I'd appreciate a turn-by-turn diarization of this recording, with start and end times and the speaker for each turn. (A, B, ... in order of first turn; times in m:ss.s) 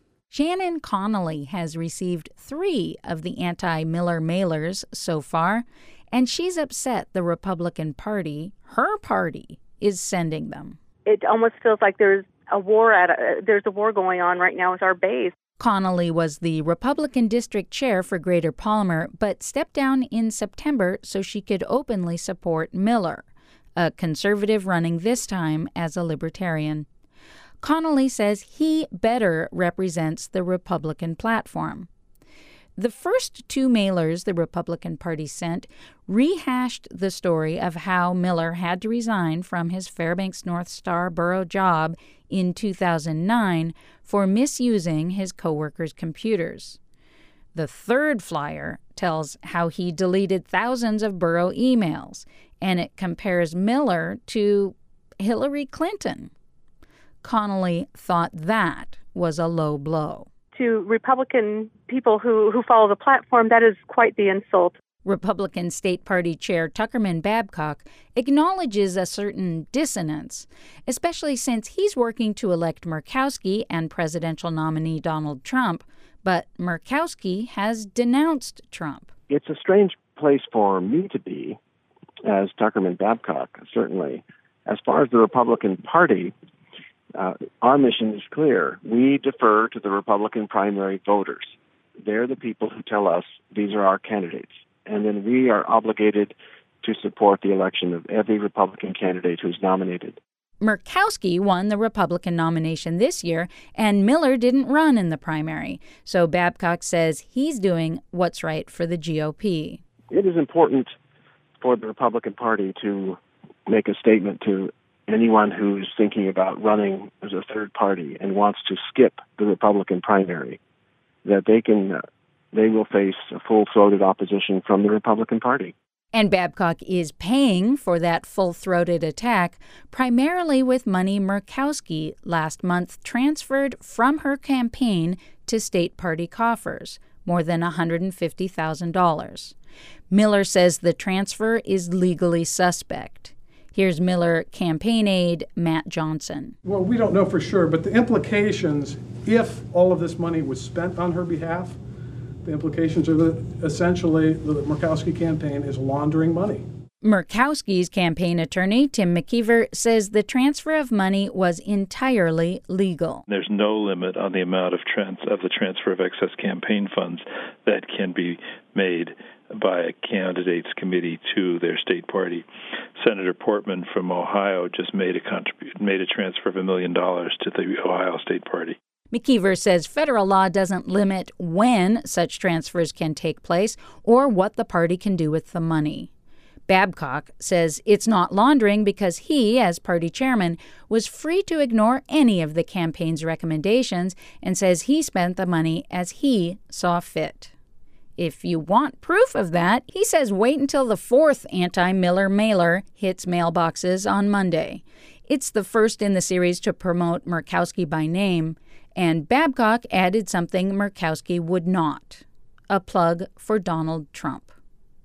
0:00.3-0:10.8 A
0:11.1-0:15.3 B
0:15.6-0:23.2 A
0:23.8-0:26.9 A
0:27.6-0:31.9 A
0:32.8-0:46.8 A
0:47.6-0:56.3 A
0:57.2-1:00.3 A
1:00.6-1:04.8 B
1:05.0-1:19.1 A
1:19.3-1:21.6 C
1:22.3-1:26.3 C
1:27.2-1:40.2 C
1:40.6-1:49.8 A
1:50.1-1:50.9 C
1:51.6-2:00.6 C
2:01.2-2:02.0 C
2:02.5-2:05.7 C
2:06.1-2:19.5 A
2:20.1-2:26.6 A
2:26.6-2:31.8 D
2:32.4-2:36.6 D
2:37.0-2:43.2 A
2:43.3-2:52.4 E
2:53.0-2:58.8 E
2:59.1-3:06.1 A
3:06.7-3:17.5 A
3:18.2-3:34.5 A